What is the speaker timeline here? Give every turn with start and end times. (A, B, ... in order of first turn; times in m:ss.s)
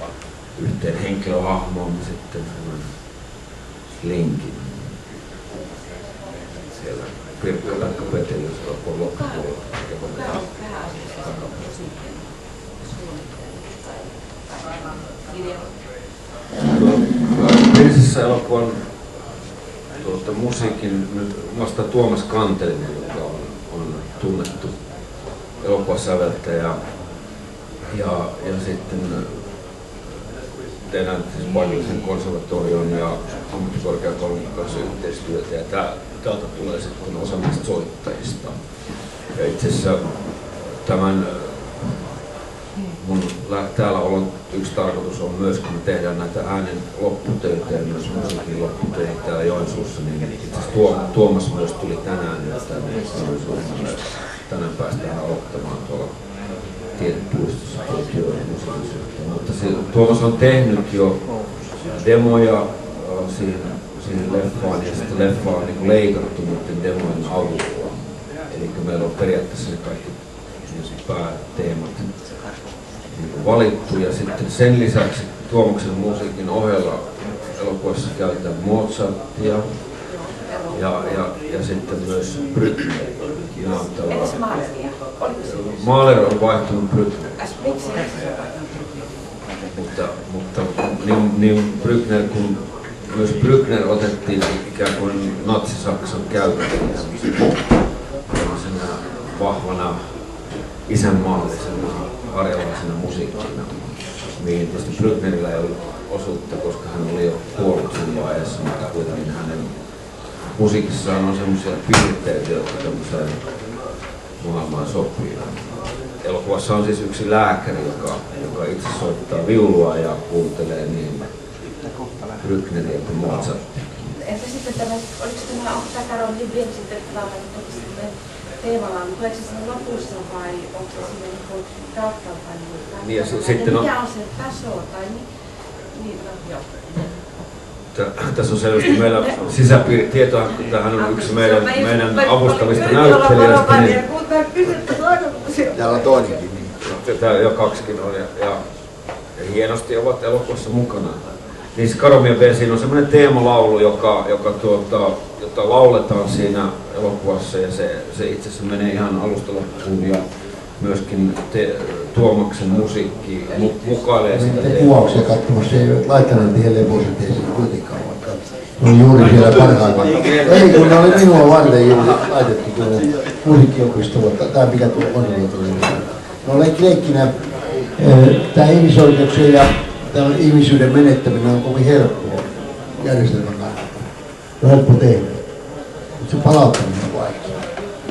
0:00.5-0:02.9 A
0:03.9-0:04.9 A
0:06.8-0:12.0 A
0:16.6-0:18.9 A
0:20.0-0:24.7 A
0:25.6-0:26.8 A
0:27.9-0:29.4 A
0:30.8-0:42.2 A
0:42.9-0:56.2 A
0:56.9-1:01.3 A
1:01.8-1:12.1 A
1:13.1-1:19.8 A
1:20.6-1:24.7 A
1:25.2-1:27.5 A
1:29.7-1:37.8 A
1:38.3-1:40.2 A
1:40.8-1:49.7 A
1:50.3-1:53.5 A
1:54.4-2:01.3 A
2:02.4-2:04.3 A
2:04.6-2:08.0 B
2:08.6-2:11.4 B
2:12.9-2:14.5 A
2:17.9-2:24.2 A
2:24.4-2:25.6 B
2:25.7-2:26.6 C
2:26.8-2:28.6 A
2:29.4-2:40.2 A
2:40.8-2:45.2 A
2:44.3-3:04.0 C
2:50.1-2:50.4 A
3:04.6-3:05.4 C
3:06.2-3:07.6 C